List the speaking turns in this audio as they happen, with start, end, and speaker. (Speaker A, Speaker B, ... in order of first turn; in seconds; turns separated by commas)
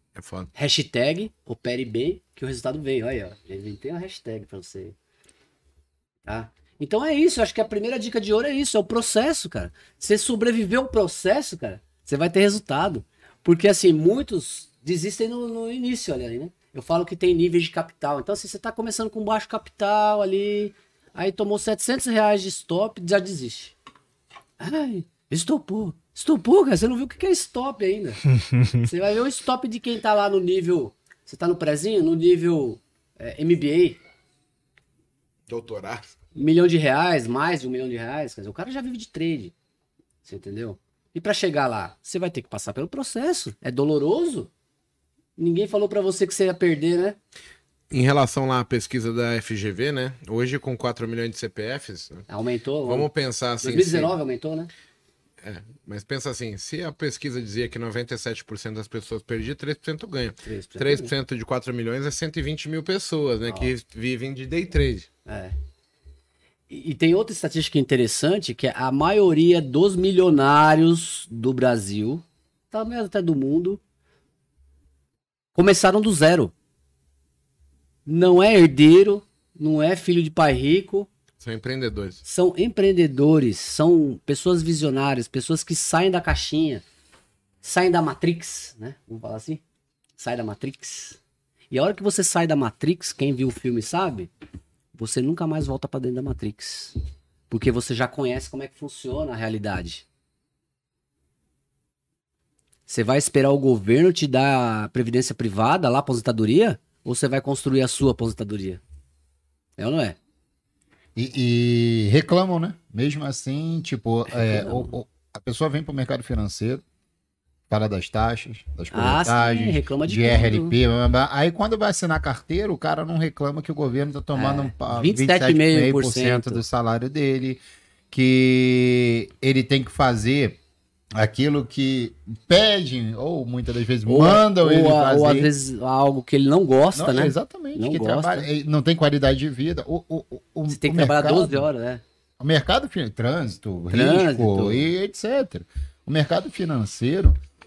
Speaker A: 0.1-0.5, Speaker B: 0.6-5.0, Speaker B: 6.2-23.7, Speaker B: 24.6-28.2, Speaker B: 28.7-34.0, Speaker A: 35.5-36.0, Speaker B: 36.4-39.5, Speaker B: 40.2-44.5, Speaker B: 45.4-47.2, Speaker A: 47.9-52.3, Speaker B: 52.3-53.1, Speaker A: 52.9-54.1, Speaker B: 53.6-54.7, Speaker A: 55.4-65.1, Speaker B: 60.4-61.1, Speaker B: 63.5-63.7, Speaker B: 65.3-65.5, Speaker B: 66.7-73.8, Speaker B: 75.5-76.5, Speaker B: 78.1-81.1, Speaker A: 81.4-82.2, Speaker B: 82.2-86.8, Speaker B: 87.6-89.6, Speaker B: 90.2-91.2, Speaker B: 91.7-94.3, Speaker B: 95.0-97.0, Speaker B: 97.5-100.0, Speaker B: 102.9-108.8, Speaker B: 109.8-110.2, Speaker C: 111.2-116.8, Speaker B: 114.3-114.9, Speaker C: 117.7-130.6, Speaker B: 118.9-120.8, Speaker B: 124.3-126.6, Speaker C: 131.2-135.5, Speaker B: 134.1-138.5, Speaker C: 136.9-141.7, Speaker B: 140.7-142.0, Speaker C: 142.4-147.4, Speaker B: 143.9-144.9